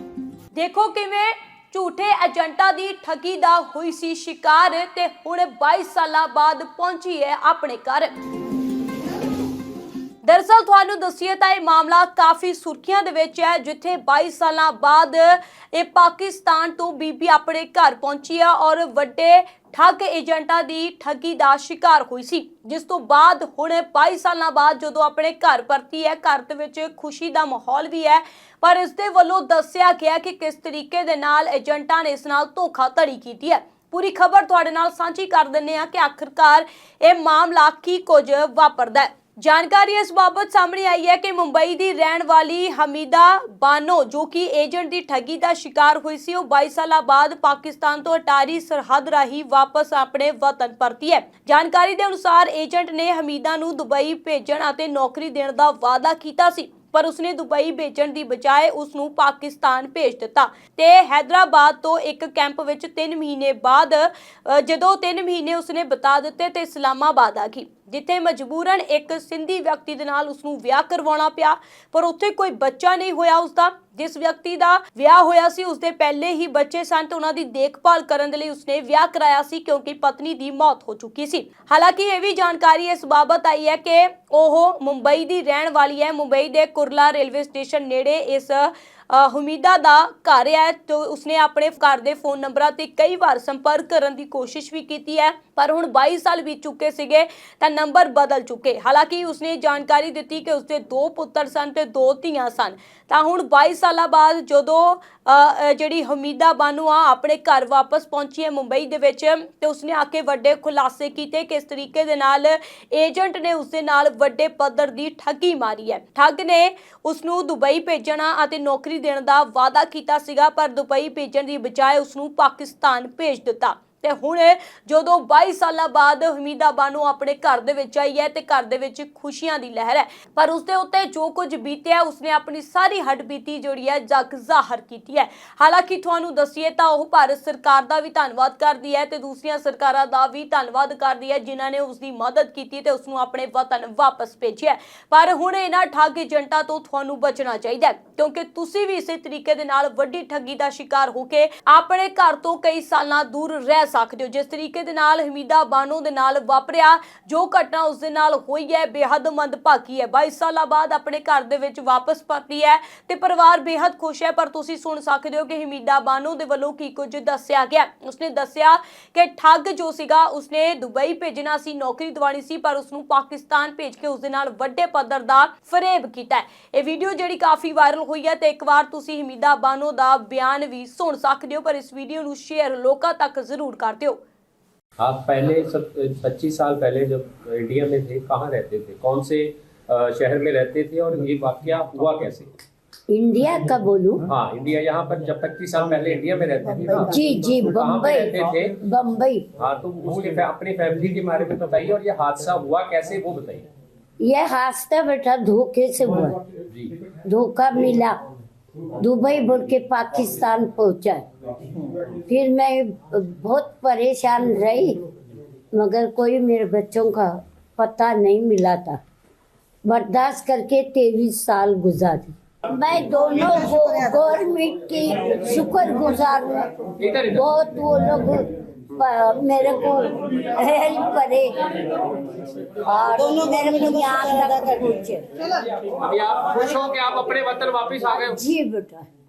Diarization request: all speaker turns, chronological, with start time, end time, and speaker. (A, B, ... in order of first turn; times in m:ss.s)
0:00.5-0:08.1 A
0:10.2-3:04.2 A
3:05.0-3:12.5 B
3:13.1-3:14.3 C
3:14.3-3:18.8 B
3:17.0-3:19.4 C
3:19.6-3:23.6 B
3:24.2-3:26.4 C
3:27.2-3:28.2 C
3:29.0-3:31.2 C
3:32.3-3:35.0 C
3:35.7-3:39.0 C
3:39.8-3:46.7 C
3:47.0-3:47.5 B
3:47.3-3:51.6 C
3:52.8-3:55.2 C
3:55.8-3:58.4 B
3:58.1-3:59.1 C